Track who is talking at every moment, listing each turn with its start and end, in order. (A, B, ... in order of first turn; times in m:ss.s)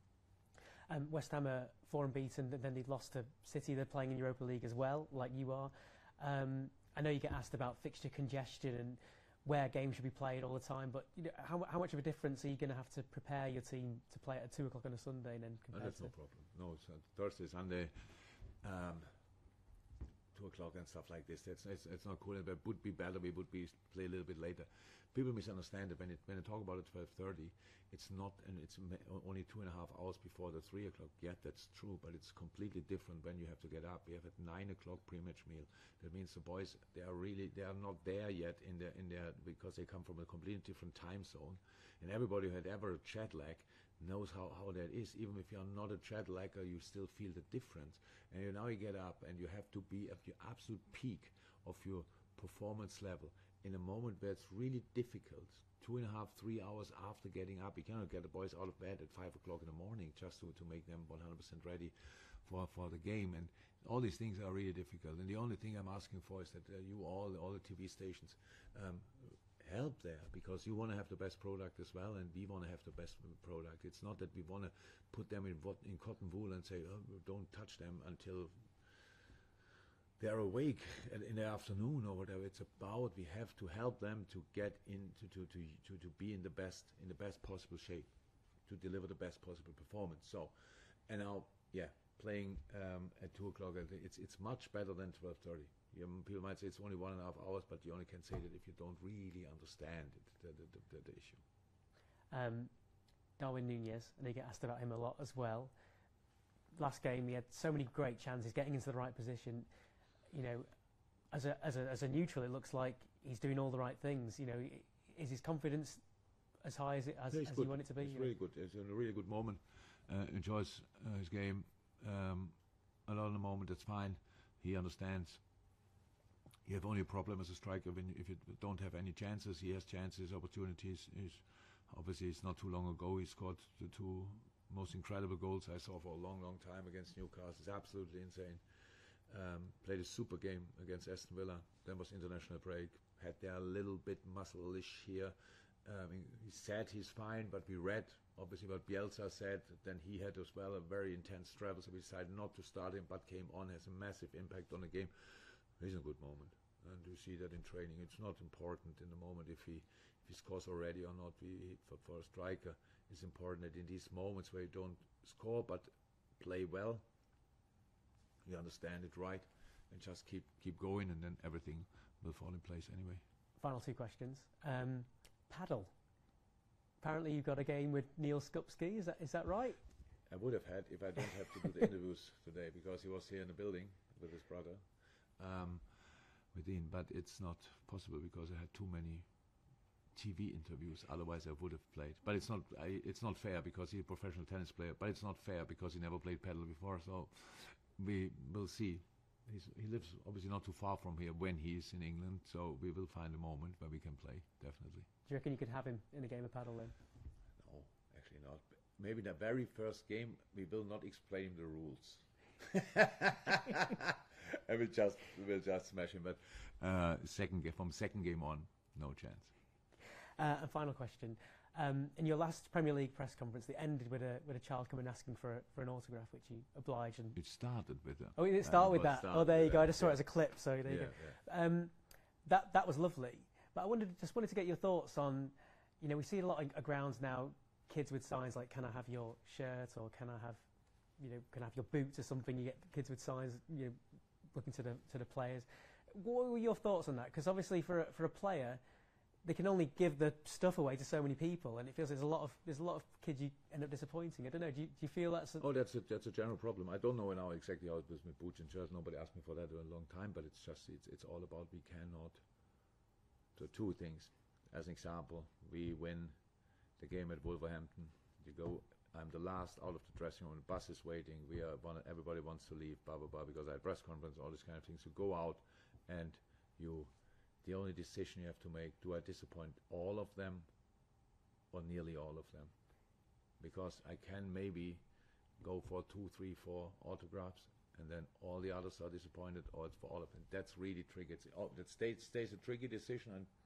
0:00.9-0:16.1 A
0:15.7-0:19.1 B
0:20.3-1:19.5 B
1:20.2-1:41.4 B
1:42.3-1:42.7 A
1:43.4-1:45.7 A
1:46.7-1:49.7 A
1:50.3-1:50.7 A
1:51.3-1:56.0 A
1:56.6-1:58.3 A
1:57.3-2:05.4 B
2:06.6-2:47.0 B
2:48.4-2:53.2 B
2:53.6-2:55.9 A
2:57.0-2:59.8 A
3:00.3-3:25.1 B
3:25.2-3:26.9 A
3:27.6-3:39.5 B
3:40.4-3:47.6 A
3:47.3-3:51.4 B
3:48.3-4:08.8 A
4:09.4-4:15.6 A
4:15.6-4:22.4 B
4:23.5-4:26.4 B
4:26.9-4:40.7 B
4:41.7-4:42.8 B
4:43.5-4:45.0 B
4:45.6-4:53.5 B